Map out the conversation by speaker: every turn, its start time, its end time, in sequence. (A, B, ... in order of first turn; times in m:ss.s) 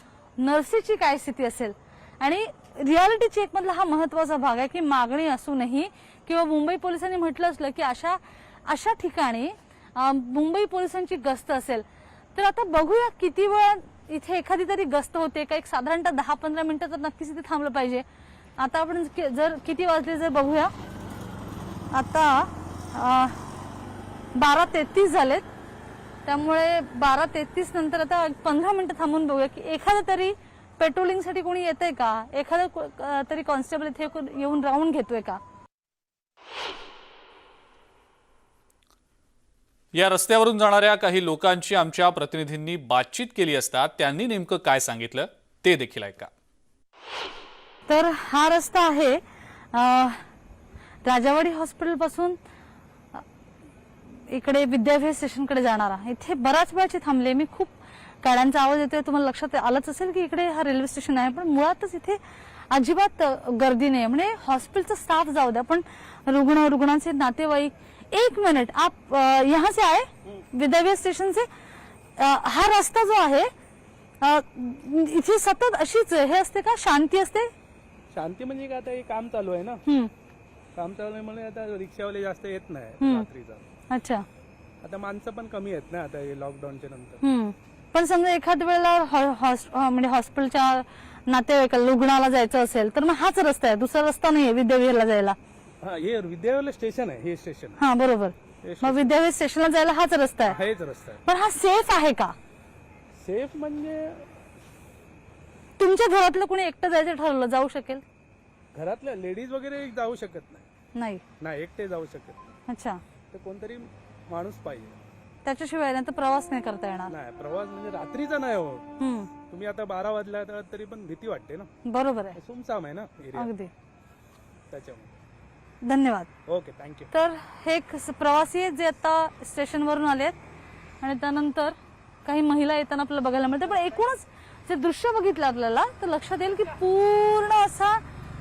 0:00.4-0:11.8 A
0:12.3-0:18.0 A
0:18.6-0:20.7 A
0:21.9-0:23.4 A
0:24.3-0:25.4 A
0:26.2-0:35.4 A
0:39.9-0:46.3 B
0:47.9-0:50.2 A
0:51.0-0:52.4 A
0:54.1-1:02.2 A
1:02.7-1:11.5 A
1:12.2-1:13.5 A
1:14.2-1:17.5 A
1:18.1-1:19.8 C
1:20.8-1:23.6 C
1:23.9-1:24.2 A
1:24.8-1:27.2 C
1:27.2-1:35.4 A
1:35.8-1:37.8 C
1:37.8-1:38.3 A
1:38.6-1:39.1 C
1:38.9-1:40.6 A
1:40.4-1:41.2 C
1:41.3-1:42.3 A
1:43.2-1:44.2 C
1:45.8-1:48.0 A
1:48.7-1:50.6 C
1:51.0-1:51.2 A
1:51.4-1:52.5 C
1:52.7-1:53.0 A
1:53.3-1:55.0 C
1:55.4-1:57.1 A
1:57.1-1:58.9 C
1:59.0-1:59.3 A
1:59.4-2:01.7 C
2:01.9-2:02.3 A
2:02.3-2:03.5 C
2:04.7-2:05.2 C
2:05.8-2:06.3 A
2:06.4-2:07.1 C
2:07.2-2:10.3 A
2:11.0-2:11.7 A
2:12.2-2:18.0 A